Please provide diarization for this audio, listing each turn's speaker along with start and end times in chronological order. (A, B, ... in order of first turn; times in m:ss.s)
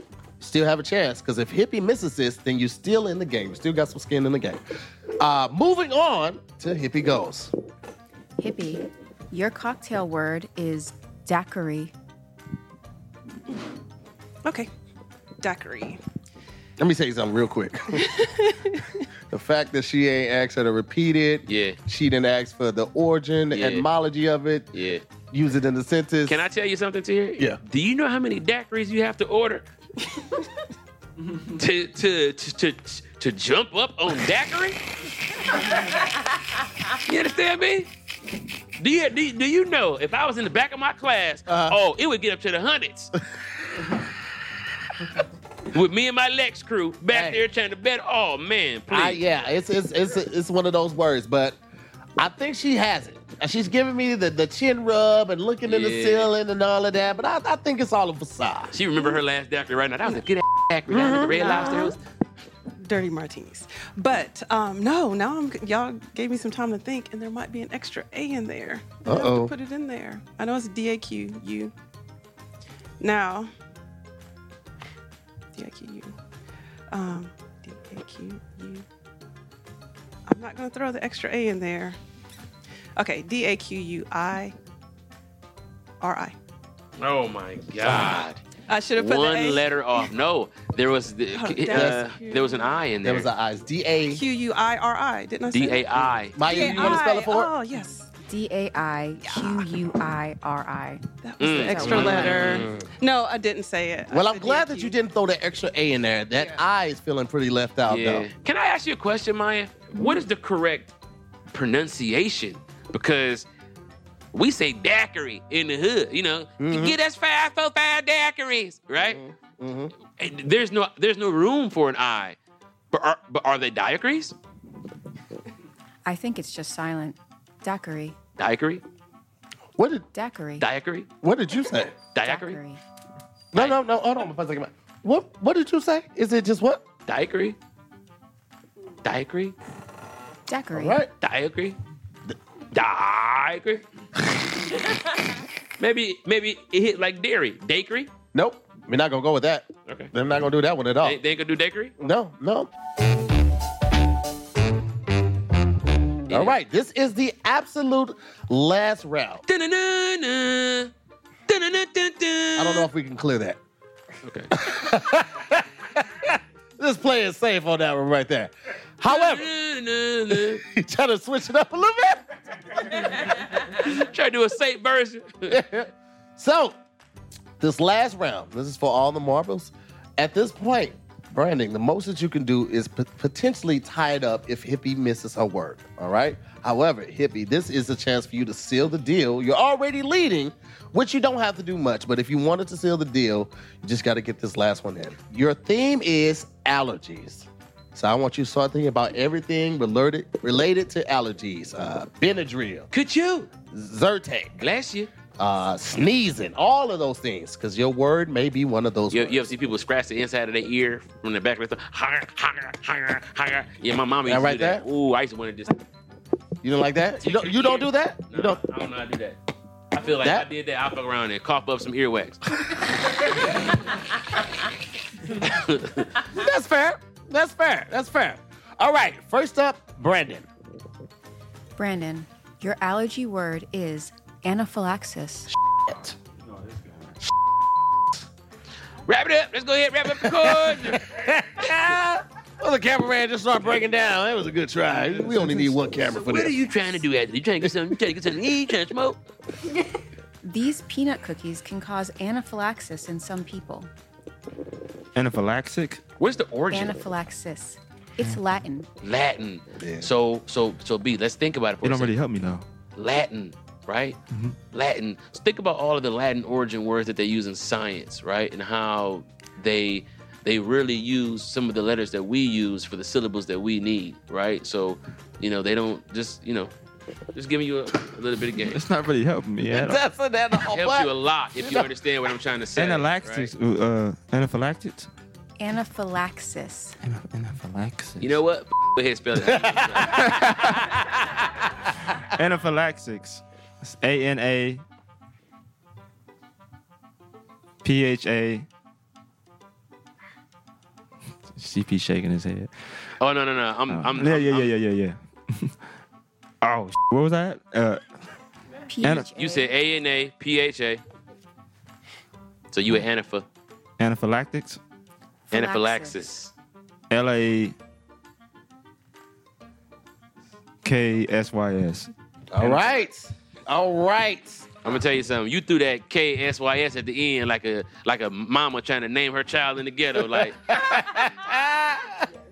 0:00.4-0:07.5 A
0:08.4-0:11.9 B
0:14.4-0:14.7 C
0:15.4-0:16.0 C
0:16.8-0:18.2 A
0:17.9-0:19.0 C
0:19.3-0:24.7 A
0:21.5-0:21.8 D
0:23.5-0:23.9 D
0:24.7-0:25.0 D
0:25.3-0:26.4 A
0:26.2-0:29.6 D
0:31.4-0:34.8 D
0:36.8-0:37.9 D
0:38.8-0:43.1 D
0:41.5-0:41.8 A
0:45.7-0:49.2 D
0:47.1-0:47.4 A
0:48.9-0:51.6 A
0:52.2-0:58.7 A
0:55.6-0:56.3 D
0:58.7-1:02.0 D
1:00.9-1:01.6 A
1:01.3-1:02.0 C
1:02.8-1:11.7 C
1:09.0-1:09.5 A
1:13.0-1:13.5 C
1:15.5-1:16.2 C
1:16.9-1:18.8 C
1:20.3-1:22.0 C
1:23.0-1:24.5 C
1:26.0-1:26.4 C
1:27.0-1:28.4 D
1:28.7-1:29.6 C
1:29.0-1:33.3 D
1:31.3-1:32.7 C
1:31.7-1:32.0 A
1:33.0-1:34.2 A
1:34.1-1:38.1 C
1:35.5-1:37.1 D
1:36.3-1:37.5 A
1:38.2-1:42.6 B
1:39.2-1:39.6 C
1:41.2-1:44.9 C
1:41.4-1:42.7 D
1:41.8-1:42.9 A
1:44.1-1:48.3 A
1:46.4-1:46.6 C
1:47.9-1:50.9 D
1:51.5-1:53.4 D
1:54.3-1:59.2 D
1:56.6-1:57.0 A
1:59.0-1:59.9 A
2:00.2-2:02.4 D
2:02.9-2:04.4 D
2:06.0-2:08.2 B
2:08.4-2:08.8 D
2:09.8-2:10.1 A
2:10.1-2:10.6 B
2:10.6-2:11.1 D
2:11.2-2:12.0 A
2:12.1-2:12.6 D
2:12.2-2:12.8 B
2:13.5-2:16.8 A
2:17.1-2:17.6 D
2:19.0-2:19.5 D
2:20.5-2:21.0 B
2:20.7-2:21.1 A
2:21.2-2:21.8 D
2:22.7-2:23.8 D
2:24.6-2:25.2 D
2:25.8-2:28.1 D
2:28.3-2:31.2 A
2:31.0-2:31.9 D
2:32.0-2:32.7 A
2:36.3-2:36.6 D
2:36.3-2:39.4 A
2:39.5-2:40.9 D
2:41.5-2:42.9 D
2:42.6-2:43.6 A
2:44.2-2:44.5 D
2:44.5-2:49.5 A
2:49.0-2:50.6 D
2:50.3-2:52.9 A
2:52.9-2:55.6 D
2:55.5-2:56.8 A
2:57.6-3:22.9 A
3:22.9-3:23.5 D
3:23.7-3:24.6 A
3:24.6-3:25.1 D
3:25.4-3:29.4 A
3:29.1-3:35.8 D
3:34.2-3:34.8 A
3:36.6-3:38.6 A
3:37.2-3:39.4 D
3:39.9-3:42.8 D
3:40.2-3:40.5 A
3:45.3-3:46.2 D
3:46.2-3:50.5 A
3:51.8-3:55.5 B
3:56.5-3:57.1 E
3:59.0-4:01.1 D
4:00.2-4:06.6 A
4:05.2-4:05.7 E
4:06.0-4:09.2 D
4:07.7-4:07.9 A
4:10.4-4:13.9 B
4:15.1-4:16.0 E
4:16.2-4:17.1 D
4:16.7-4:18.9 B
4:19.0-4:22.1 D
4:19.8-4:20.1 A
4:21.8-4:22.6 E
4:23.0-4:24.2 D
4:24.7-4:36.7 D
4:37.3-4:38.8 D
4:38.6-4:40.0 E
4:39.7-4:41.9 A
4:40.7-4:43.5 D
4:42.8-4:45.1 E
4:45.6-4:47.0 B
4:47.0-4:48.4 E
4:48.2-4:51.1 D
4:49.4-4:50.5 A
4:50.1-4:50.8 E
4:52.3-4:54.8 E
4:57.8-4:58.7 E
5:01.5-5:02.7 E
5:03.2-5:04.7 D
5:03.9-5:05.8 E
5:06.6-5:08.1 E
5:08.9-5:09.7 B
5:09.0-5:09.3 E
5:09.4-5:11.0 D
5:12.7-5:13.4 D
5:14.0-5:14.8 E
5:15.5-5:16.2 B
5:15.5-5:16.5 D
5:17.1-5:17.8 E
5:20.8-5:23.0 E
5:22.5-5:24.8 A
5:24.8-5:30.8 D
5:30.2-5:32.3 A